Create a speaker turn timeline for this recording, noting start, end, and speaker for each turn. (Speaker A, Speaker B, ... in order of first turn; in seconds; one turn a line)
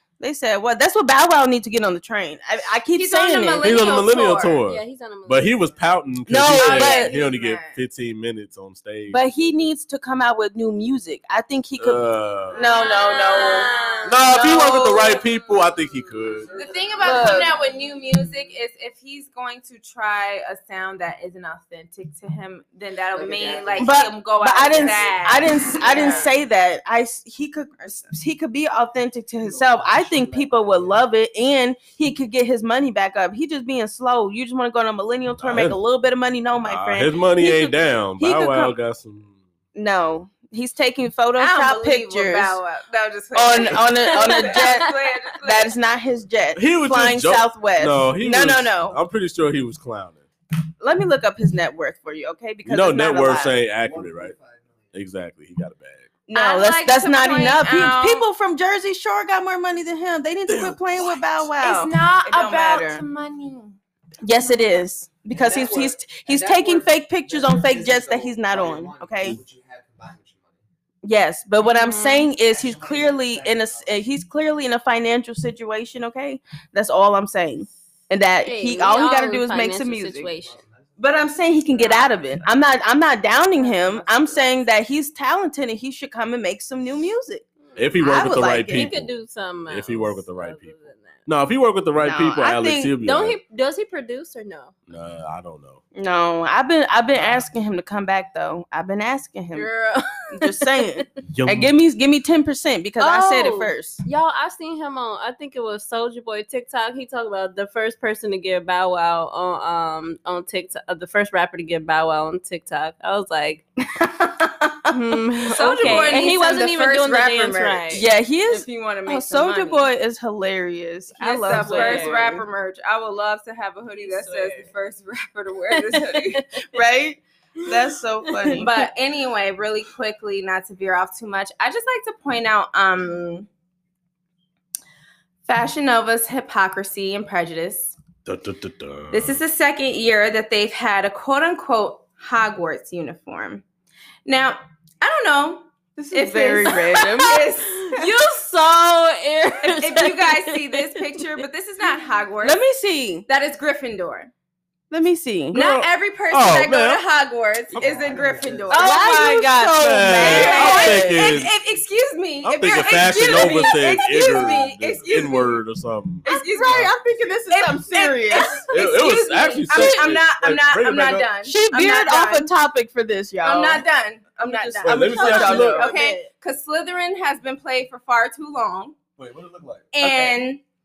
Speaker A: 0.2-3.7
Speaker B: 2.9-4.6
Speaker C: 3.6-9.2
Speaker D: 4.6-5.8
Speaker A: 6.3-7.1
Speaker B: 6.5-7.8
Speaker A: 9.1-13.7
Speaker C: 11.8-12.7
Speaker B: 12.5-14.2
Speaker D: 12.6-14.4
Speaker C: 14.0-16.5
Speaker A: 14.2-15.2
Speaker E: 16.2-18.1
Speaker B: 16.5-26.3
Speaker A: 17.0-17.6
Speaker E: 23.1-25.7
Speaker A: 23.8-38.8
Speaker D: 25.9-26.3
Speaker B: 27.8-28.1
Speaker E: 29.4-31.1
Speaker C: 35.4-35.8
Speaker C: 36.6-39.3
Speaker A: 39.7-42.6
Speaker B: 41.4-45.7
Speaker A: 43.3-49.0
Speaker D: 44.0-44.9
Speaker C: 46.5-50.2
Speaker A: 50.8-53.6
Speaker C: 52.6-54.3
Speaker E: 53.5-54.9
Speaker C: 54.9-56.1
Speaker A: 56.3-63.0
Speaker B: 56.3-58.2
Speaker C: 60.5-61.2
Speaker B: 61.6-63.8
Speaker A: 64.2-69.4
Speaker E: 65.3-70.6
Speaker A: 71.0-80.3
Speaker D: 71.6-72.3
Speaker E: 72.4-74.0
Speaker D: 78.4-80.6
Speaker E: 80.2-81.4
Speaker A: 81.0-87.4
Speaker B: 81.8-82.0
Speaker B: 83.6-84.5
Speaker D: 87.7-88.0
Speaker C: 87.8-89.1
Speaker A: 88.0-88.9
Speaker D: 88.7-91.3
Speaker C: 89.7-93.4
Speaker A: 92.0-92.9
Speaker D: 93.0-94.8
Speaker C: 94.9-95.8
Speaker A: 95.9-99.7
Speaker D: 99.5-101.0
Speaker A: 100.3-104.0
Speaker C: 101.2-101.7
Speaker D: 103.0-113.6
Speaker A: 113.9-115.0
Speaker D: 114.9-118.0
Speaker B: 115.5-119.9
Speaker A: 115.8-116.3
Speaker A: 117.9-122.5
Speaker B: 121.2-126.5
Speaker D: 121.4-122.3
Speaker D: 124.0-124.7
Speaker D: 125.7-126.4
Speaker A: 126.7-128.7
Speaker D: 127.7-128.7
Speaker B: 128.5-133.5
Speaker B: 135.4-137.9
Speaker C: 138.2-139.4
Speaker B: 139.1-143.6
Speaker B: 144.2-148.1
Speaker A: 146.0-147.4
Speaker D: 146.8-151.4
Speaker B: 149.6-152.6
Speaker A: 152.4-153.2
Speaker B: 153.3-154.3
Speaker A: 154.9-155.6
Speaker C: 155.5-157.0
Speaker B: 155.5-159.3
Speaker C: 157.7-158.2
Speaker E: 157.7-158.9
Speaker A: 158.7-161.3
Speaker D: 158.8-159.7
Speaker C: 159.3-161.5
Speaker B: 160.2-165.6
Speaker D: 160.3-160.8
Speaker C: 162.4-166.2
Speaker B: 166.2-166.9
Speaker A: 166.2-168.6
Speaker E: 166.7-167.4
Speaker B: 167.5-172.5
Speaker C: 168.7-171.3
Speaker A: 171.4-173.8
Speaker B: 173.4-178.9
Speaker A: 174.4-175.9
Speaker C: 174.8-175.9
Speaker D: 175.2-176.3
Speaker C: 179.2-179.8
Speaker B: 179.9-180.6